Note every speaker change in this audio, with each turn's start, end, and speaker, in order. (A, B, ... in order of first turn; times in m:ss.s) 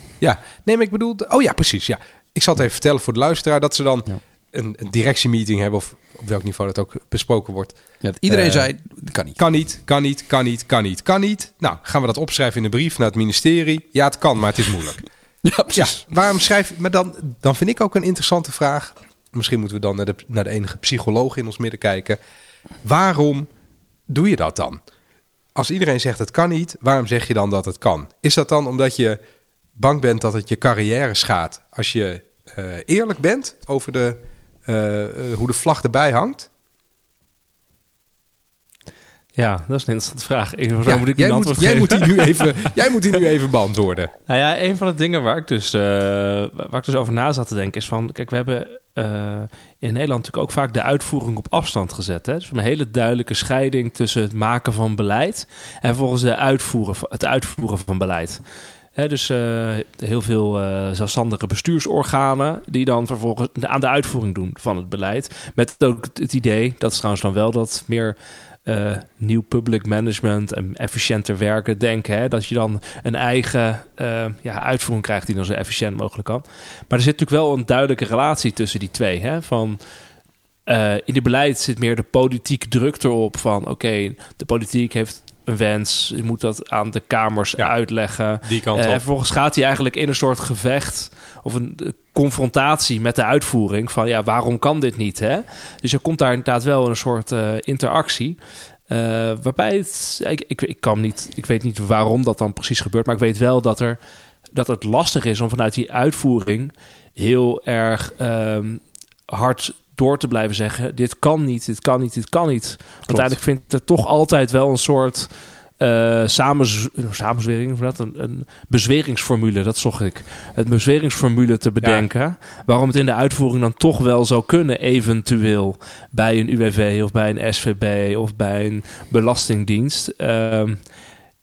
0:00.2-0:07.8 A
0:08.0-0:09.4 B
0:08.3-0:08.7 A
0:09.4-0:15.0 A
0:15.4-0:16.0 B
0:15.7-0:22.2 A
0:22.8-0:23.5 A
0:24.1-0:24.8 A
0:25.6-0:29.2 A
0:29.8-0:36.5 A
0:39.4-0:42.7 C
0:40.8-0:44.1 A
0:44.3-0:58.4 C
0:59.0-1:19.8 C
1:20.7-1:38.4 C
1:28.4-1:29.0 A
1:38.9-1:44.0 C
1:44.5-2:10.8 C